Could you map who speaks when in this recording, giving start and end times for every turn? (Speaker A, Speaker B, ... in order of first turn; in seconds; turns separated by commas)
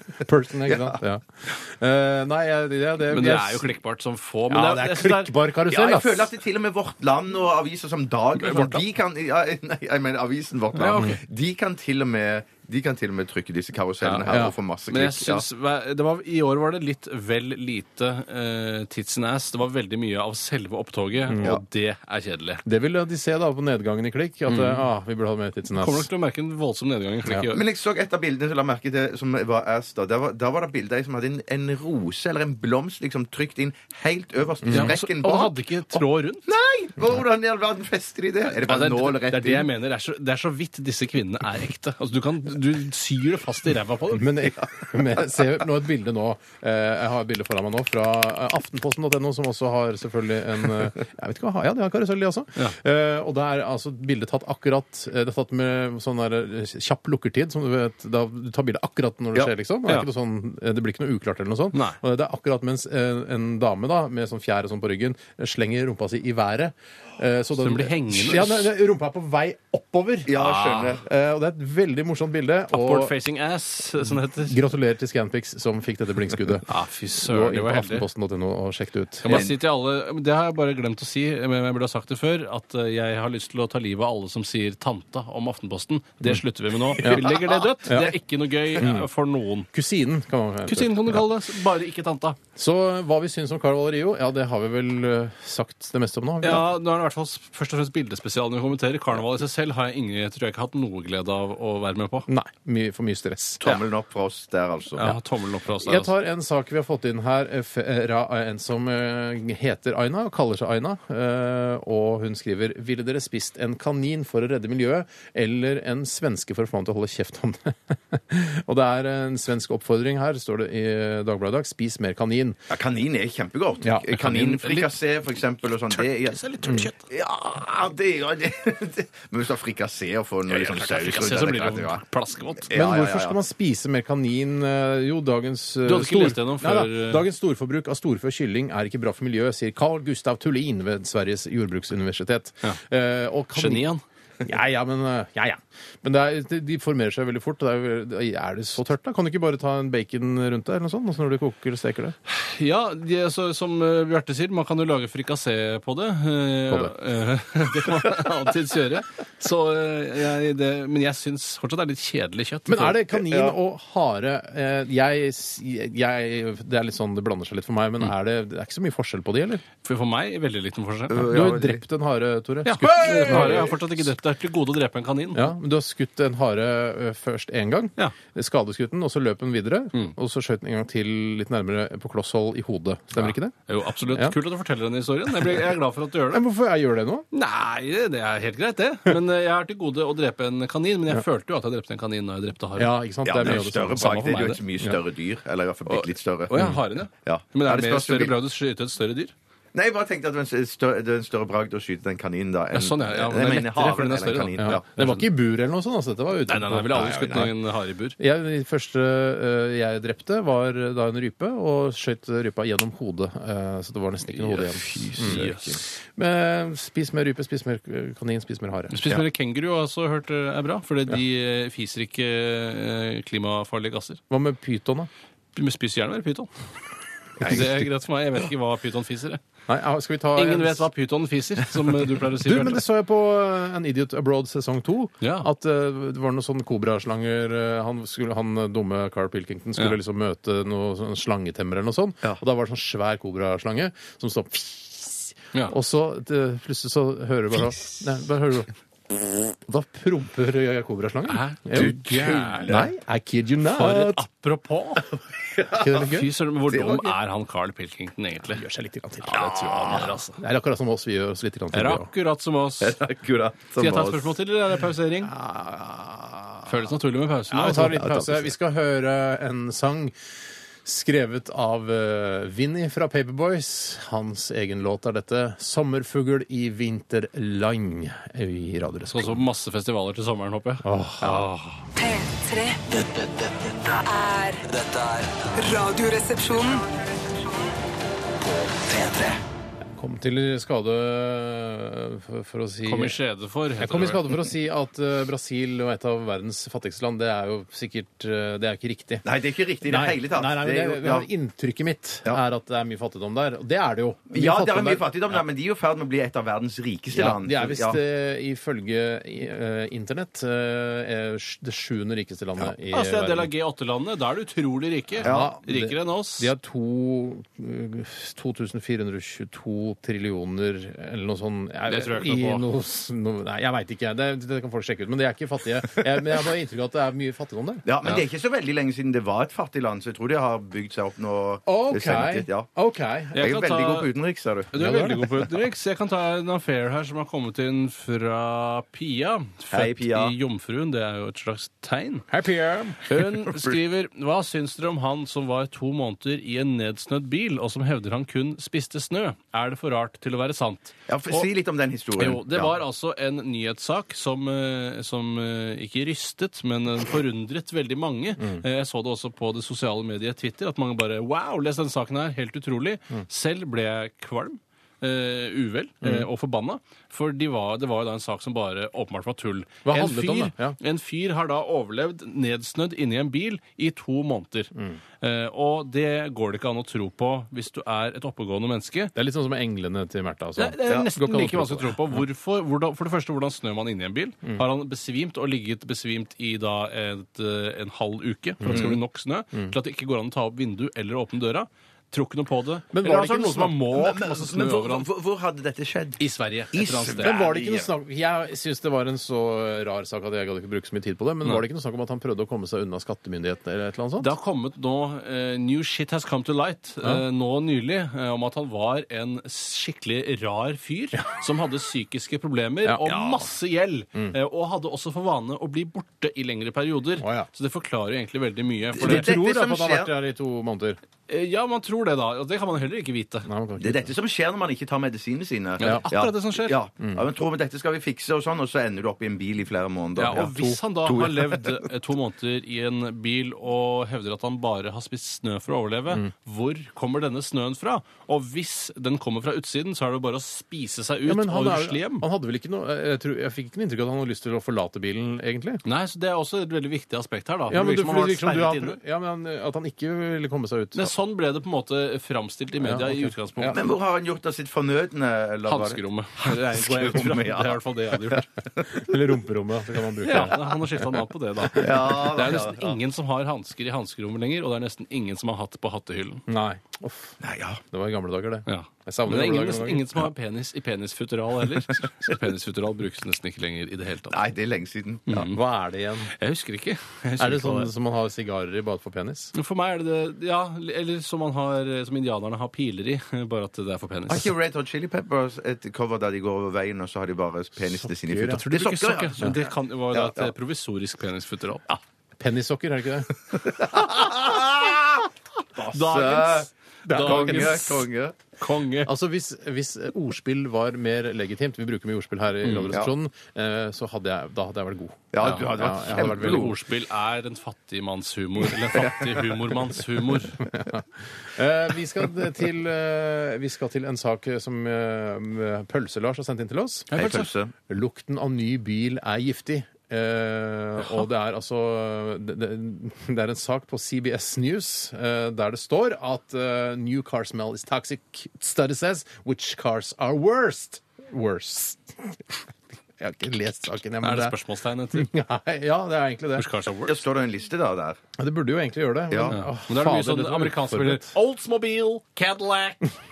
Speaker A: 0.2-3.7, Speaker B: 0.7-0.9, Speaker C: 3.1-5.3, Speaker A: 4.5-6.3, Speaker B: 5.7-15.4, Speaker C: 8.4-8.8, Speaker C: 10.7-11.2, Speaker C: 14.0-22.6, Speaker A: 14.3-14.5, Speaker A: 21.3-21.6, Speaker A: 22.6-26.1, Speaker C: 24.5-24.9, Speaker C: 25.7-27.6, Speaker B: 27.5-39.7, Speaker A: 34.6-34.9, Speaker C: 34.7-36.5, Speaker C: 38.4-44.3, Speaker A: 44.1-70.3, Speaker C: 61.7-62.0, Speaker C: 67.6-68.7, Speaker B: 70.3-71.0, Speaker C: 70.3-71.0, Speaker A: 71.0-73.1, Speaker C: 72.7-74.6, Speaker A: 74.1-76.7, Speaker C: 76.5-78.1, Speaker A: 77.2-79.4, Speaker C: 79.2-89.7, Speaker B: 79.3-79.5, Speaker A: 87.0-87.3, Speaker B: 87.0-88.1, Speaker A: 88.8-89.0, Speaker A: 89.7-91.2, Speaker C: 90.6-92.4, Speaker A: 92.5-96.7, Speaker C: 96.4-102.3, Speaker A: 102.3-103.6, Speaker B: 103.6-105.1, Speaker C: 105.0-106.1, Speaker A: 105.8-122.6, Speaker B: 122.7-126.4, Speaker A: 123.8-124.8, Speaker C: 124.1-124.9, Speaker C: 125.6-127.0, Speaker B: 127.0-132.0, Speaker C: 130.5-132.7, Speaker B: 132.7-133.4, Speaker A: 132.7-143.8, Speaker C: 135.8-137.2, Speaker C: 143.5-144.0, Speaker A: 144.4-152.1, Speaker C: 152.2-163.0, Speaker A: 162.7-169.6, Speaker B: 163.2-163.6, Speaker C: 169.8-171.3, Speaker B: 171.1-171.8, Speaker A: 171.3-173.8, Speaker C: 172.6-175.5, Speaker B: 173.1-173.7, Speaker A: 175.3-183.5, Speaker C: 183.1-186.4, Speaker A: 186.3-187.2, Speaker C: 187.3-194.6, Speaker A: 192.8-194.2, Speaker B: 193.2-198.3, Speaker C: 195.9-199.3, Speaker B: 199.7-204.8, Speaker C: 202.7-205.3, Speaker A: 204.6-207.5, Speaker C: 206.4-208.2, Speaker B: 206.9-207.5, Speaker A: 208.2-215.4, Speaker C: 214.3-215.8, Speaker B: 214.8-215.8, Speaker A: 216.2-219.2, Speaker C: 218.9-224.2, Speaker A: 224.3-225.1, Speaker C: 225.5-226.5, Speaker B: 227.4-227.7, Speaker A: 227.4-227.8, Speaker C: 227.4-229.4, Speaker A: 229.7-230.9, Speaker C: 230.3-232.8, Speaker A: 232.4-248.7, Speaker C: 235.2-235.5, Speaker A: 249.7-251.9, Speaker C: 251.3-252.9, Speaker B: 251.7-252.9, Speaker A: 252.7-254.2, Speaker C: 253.7-255.1, Speaker A: 255.7-256.3, Speaker C: 255.9-258.6, Speaker B: 256.7-257.1, Speaker A: 258.5-259.4, Speaker C: 259.2-260.4, Speaker B: 259.3-260.1, Speaker A: 260.4-262.1, Speaker C: 261.7-263.0, Speaker B: 262.8-264.3, Speaker C: 263.8-265.3, Speaker A: 265.2-266.6, Speaker C: 266.6-268.3, Speaker A: 267.5-270.1, Speaker B: 267.9-268.5, Speaker A: 270.8-279.4, Speaker C: 279.1-281.5, Speaker A: 280.8-281.4, Speaker B: 281.2-281.5, Speaker D: 281.9-282.9, Speaker E: 282.9-284.0, Speaker D: 284.0-284.6, Speaker E: 284.6-285.5, Speaker D: 285.6-287.7, Speaker E: 288.4-289.4, Speaker A: 289.9-293.2, Speaker C: 292.8-294.2, Speaker A: 293.8-299.2, Speaker B: 299.2-301.3, Speaker A: 299.8-305.4, Speaker B: 304.3-308.0, Speaker A: 307.1-313.5, Speaker C: 312.6-316.5, Speaker A: 315.2-327.8, Speaker B: 315.2-315.6, Speaker C: 321.9-322.6, Speaker B: 327.8-332.7, Speaker A: 331.6-333.4, Speaker C: 333.3-334.1, Speaker B: 333.4-334.7, Speaker C: 334.7-342.3, Speaker A: 334.7-335.5, Speaker B: 339.7-340.3, Speaker A: 342.3-343.1, Speaker C: 343.0-351.5, Speaker B: 343.3-343.8, Speaker B: 351.1-352.7, Speaker C: 352.2-379.1, Speaker A: 369.8-370.8, Speaker A: 379.1-382.2, Speaker C: 380.6-395.1, Speaker A: 388.6-388.9, Speaker B: 388.7-389.0, Speaker A: 392.9-393.8, Speaker B: 393.9-397.9, Speaker C: 396.2-397.4, Speaker A: 397.2-404.3, Speaker C: 404.2-419.4, Speaker B: 413.1-413.4, Speaker A: 417.2-417.5, Speaker B: 419.0-420.1, Speaker A: 419.0-421.0, Speaker C: 421.3-423.5, Speaker A: 423.4-424.1, Speaker B: 423.8-431.8, Speaker C: 425.8-426.8, Speaker C: 430.1-442.2, Speaker A: 441.2-445.8, Speaker C: 445.8-449.0, Speaker A: 447.7-451.1, Speaker C: 450.9-453.8, Speaker A: 452.8-453.8, Speaker B: 453.7-459.1, Speaker C: 455.7-458.5, Speaker A: 458.9-461.0, Speaker C: 460.2-466.4, Speaker B: 460.3-460.5, Speaker B: 461.7-463.0, Speaker A: 466.5-467.4, Speaker B: 467.4-467.8, Speaker A: 467.9-470.2, Speaker C: 468.6-474.4, Speaker B: 474.3-475.5, Speaker C: 475.3-475.6, Speaker A: 475.5-476.3, Speaker C: 476.3-477.9, Speaker A: 477.4-479.5, Speaker C: 479.5-484.5, Speaker B: 484.3-489.5, Speaker A: 488.0-488.6, Speaker C: 488.5-491.8, Speaker B: 490.1-490.5, Speaker A: 492.4-493.3, Speaker B: 493.5-495.2, Speaker B: 495.8-498.4, Speaker C: 495.9-498.0, Speaker A: 497.1-497.9, Speaker C: 498.6-499.1, Speaker A: 499.1-506.7, Speaker C: 502.6-503.0, Speaker B: 505.3-506.8, Speaker C: 505.9-510.6, Speaker B: 509.0-509.7, Speaker A: 510.6-517.1, Speaker C: 517.1-517.5, Speaker B: 517.1-517.7, Speaker A: 517.9-532.3, Speaker A: 533.2-534.6, Speaker C: 534.2-535.3, Speaker A: 535.1-536.7, Speaker C: 536.5-537.2, Speaker B: 537.0-538.2, Speaker A: 538.4-541.3, Speaker B: 539.3-539.6, Speaker C: 539.5-543.0